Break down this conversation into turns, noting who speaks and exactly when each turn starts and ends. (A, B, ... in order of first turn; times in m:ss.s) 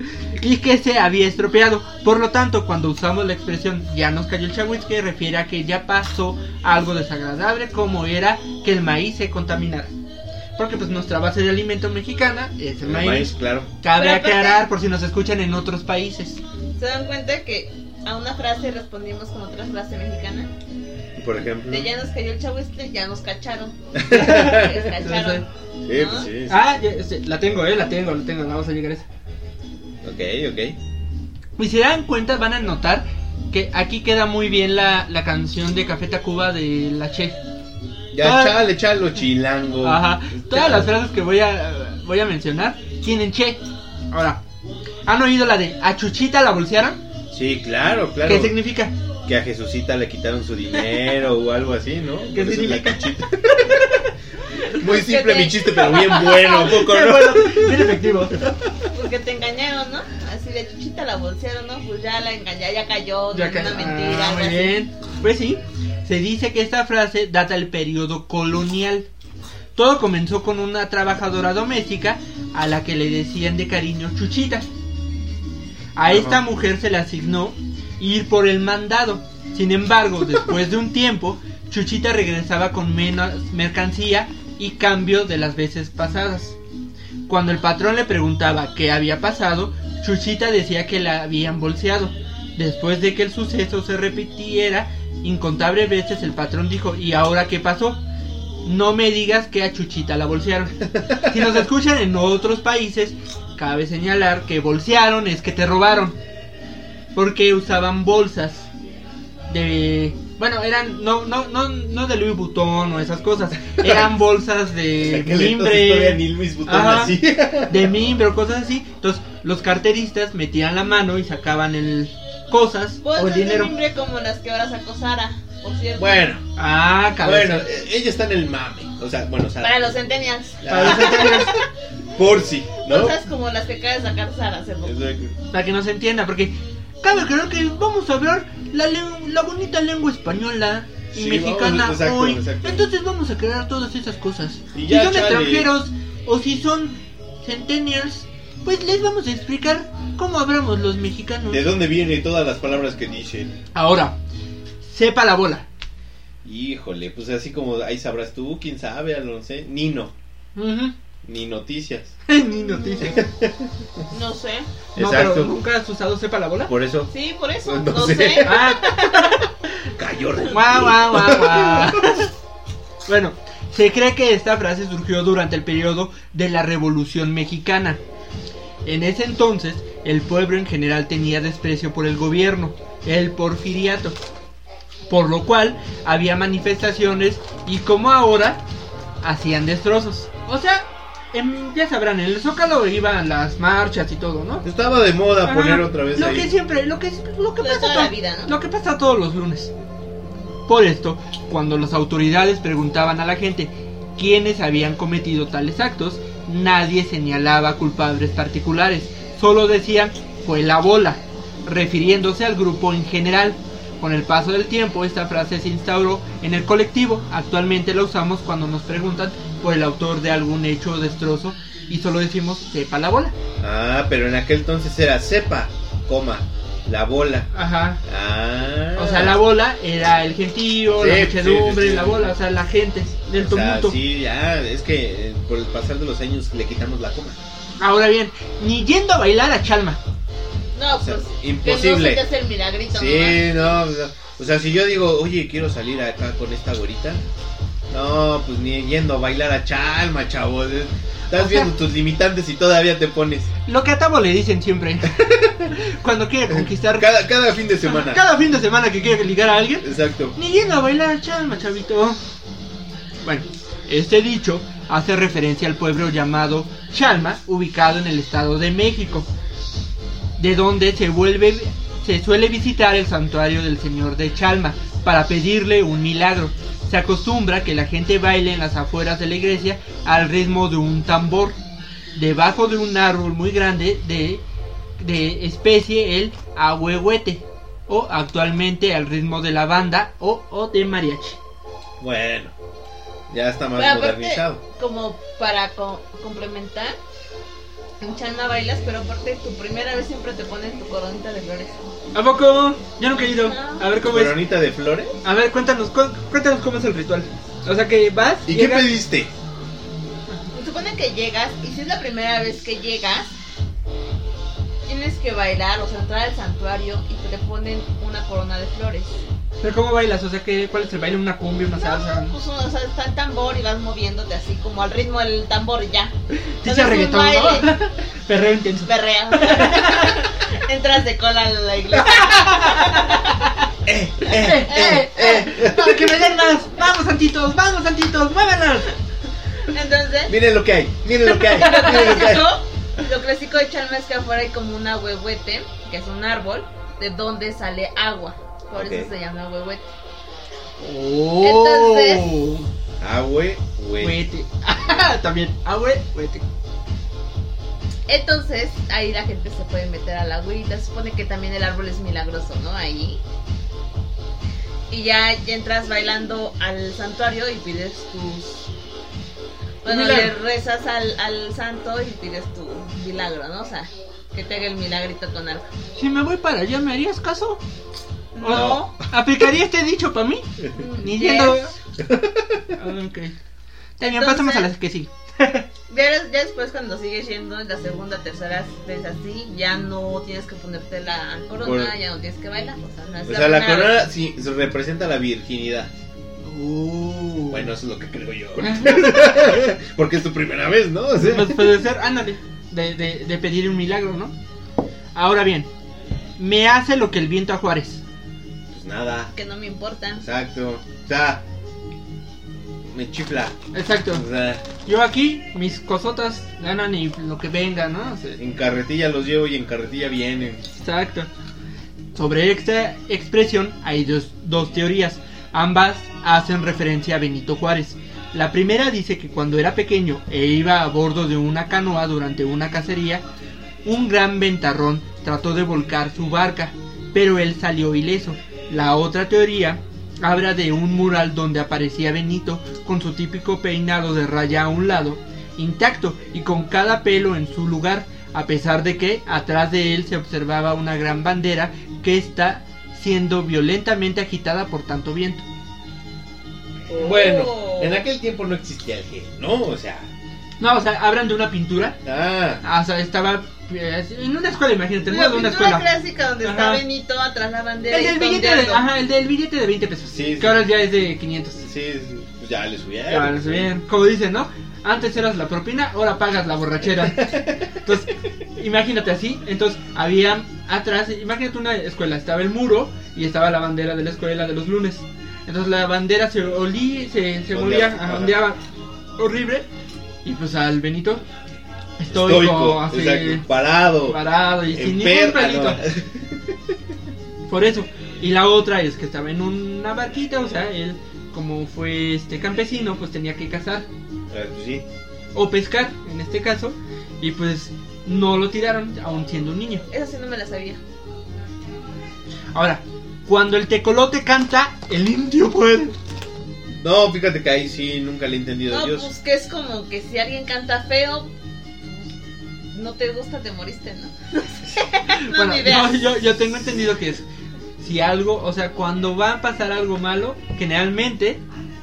0:00.2-0:09.9 A
0:10.6-0:16.4 A
0:12.8-0:13.7 B
0:13.9-0:14.6 C
0:16.8-0:20.5 C
0:21.2-0:21.9 B
0:21.7-0:26.3 C
0:23.9-0:24.9 B
0:24.1-0:25.4 A
0:25.8-0:26.6 B
0:26.5-0:29.0 A
0:30.0-0:30.8 B
0:31.6-0:37.4 A
0:38.1-0:40.9 B
0:38.2-0:38.6 A
0:39.8-0:43.6 A
0:44.1-0:44.4 A
0:45.0-0:47.0 A
0:47.3-0:48.5 B
0:48.2-0:48.9 A
0:49.2-0:54.0 B
0:52.3-0:53.1 A
0:53.6-0:54.1 A
0:54.7-0:58.5 B
0:54.8-0:56.8 C
0:56.1-0:58.4 A
0:58.9-1:04.8 C
1:03.3-1:09.1 A
1:09.7-1:14.7 A
1:16.0-1:26.6 A
1:16.1-1:16.4 B
1:27.3-1:38.0 A
1:38.6-1:46.2 A
1:47.1-1:48.7 A
1:49.5-1:57.2 A
1:53.8-1:54.1 B
1:55.0-1:58.0 B
1:57.7-2:03.7 A
2:03.0-2:06.3 C
2:06.0-2:06.4 B
2:06.6-2:07.7 A
2:07.2-2:09.9 B
2:09.6-2:11.5 C
2:10.6-2:11.6 B
2:10.7-2:11.5 A
2:12.2-2:13.2 B
2:12.8-2:15.0 C
2:14.8-2:15.3 B
2:15.5-2:31.7 A
2:21.1-2:22.8 B
2:24.7-2:25.7 B
2:31.5-2:33.5 B
2:33.7-2:34.2 A
2:34.8-2:35.7 A
2:36.4-2:40.1 B
2:40.6-2:40.9 A
2:41.2-2:42.1 B
2:42.3-2:43.2 A
2:43.0-2:43.7 B
2:44.1-2:44.7 C
2:44.9-2:45.5 B
2:45.0-2:46.7 A
2:46.7-2:47.1 B
2:47.1-2:49.2 C
2:47.6-2:48.5 B
2:48.4-2:49.4 A
2:50.0-2:52.2 B
2:50.5-2:52.3 A
2:53.1-2:58.0 A
2:58.8-3:04.2 A
3:05.1-3:08.6 A
3:09.2-3:14.6 A
3:14.6-3:16.5 B
3:15.4-3:19.7 A
3:17.6-3:18.5 C
3:20.7-3:43.3 A
3:43.6-3:47.5 B
3:47.5-3:48.0 A
3:48.0-3:49.4 B
3:48.9-3:53.9 A
3:51.0-3:52.2 B
3:53.4-3:57.4 B
3:57.8-4:00.0 A
4:00.7-4:03.4 C
4:01.0-4:02.2 B
4:02.9-4:07.2 B
4:07.9-4:13.5 B
4:11.3-4:11.7 A
4:13.6-4:17.1 A
4:15.2-4:15.7 B
4:16.5-4:18.2 B
4:17.8-4:22.2 A
4:19.8-4:20.3 B
4:23.2-4:29.3 A
4:30.4-4:41.6 A
4:42.1-4:44.4 A
4:45.0-4:51.4 A
4:52.0-4:52.5 B
4:53.3-4:54.6 B
4:53.8-4:57.0 C
4:58.0-5:01.9 C
5:02.1-5:04.4 A
5:03.1-5:03.9 C
5:04.0-5:05.1 B
5:05.2-5:08.9 A
5:08.4-5:09.3 B
5:10.5-5:13.4 C
5:14.9-5:19.2 C
5:19.6-5:22.3 A
5:21.8-5:27.7 C
5:26.5-5:30.3 A
5:28.8-5:33.4 C
5:32.2-5:33.2 A
5:33.8-5:36.0 B
5:34.3-5:38.9 A
5:34.5-5:35.4 C
5:39.7-5:40.3 C
5:40.3-5:42.4 B
5:41.5-5:49.8 C
5:48.7-5:49.1 B
5:50.8-5:52.7 A
5:51.4-5:52.3 C
5:53.0-5:54.2 B
5:54.0-5:56.4 A
5:58.1-6:03.2 C
6:04.9-6:08.7 C
6:09.8-6:15.7 C
6:09.9-6:10.3 A
6:16.0-6:17.6 A
6:18.3-6:19.0 C
6:18.4-6:21.7 A
6:18.5-6:18.8 B
6:20.8-6:21.7 C
6:22.0-6:22.7 B
6:22.7-6:23.3 A
6:24.0-6:25.6 A
6:24.0-6:24.7 C
6:25.9-6:34.0 C
6:31.6-6:31.9 B
6:33.2-6:35.9 B
6:36.4-6:37.6 A
6:37.5-6:41.7 B
6:38.6-6:39.2 A
6:41.2-6:44.3 A
6:45.1-6:45.7 A
6:46.4-6:48.0 A
6:48.7-6:49.3 B
6:49.3-6:50.2 C
6:50.2-6:51.4 B
6:52.9-6:54.6 B
6:53.7-6:54.2 A
6:54.8-6:58.4 A
6:58.4-7:00.6 B
7:00.8-7:01.3 A
7:02.1-7:13.2 A
7:13.8-7:35.4 A
7:36.9-7:38.0 C
7:36.9-7:40.1 B
7:40.6-7:42.0 A
7:42.0-7:42.6 B
7:42.6-7:45.9 A
7:45.0-7:48.8 C
7:46.4-7:46.8 A
7:47.9-7:51.6 A
7:50.1-7:50.6 B
7:51.6-7:53.7 B
7:53.1-8:08.6 A
7:57.1-7:57.6 B
8:07.5-8:08.4 B
8:09.2-8:09.7 A
8:10.2-8:11.2 A
8:12.0-8:13.4 A
8:12.1-8:16.7 B
8:14.0-8:15.8 A
8:17.5-8:23.8 A
8:24.3-8:24.8 B
8:25.3-8:29.8 A
8:29.9-8:30.8 C
8:32.5-8:36.0 A
8:36.8-8:39.1 B
8:38.7-8:41.3 C
8:42.7-8:46.1 C
8:45.2-8:47.2 A
8:47.8-8:51.4 A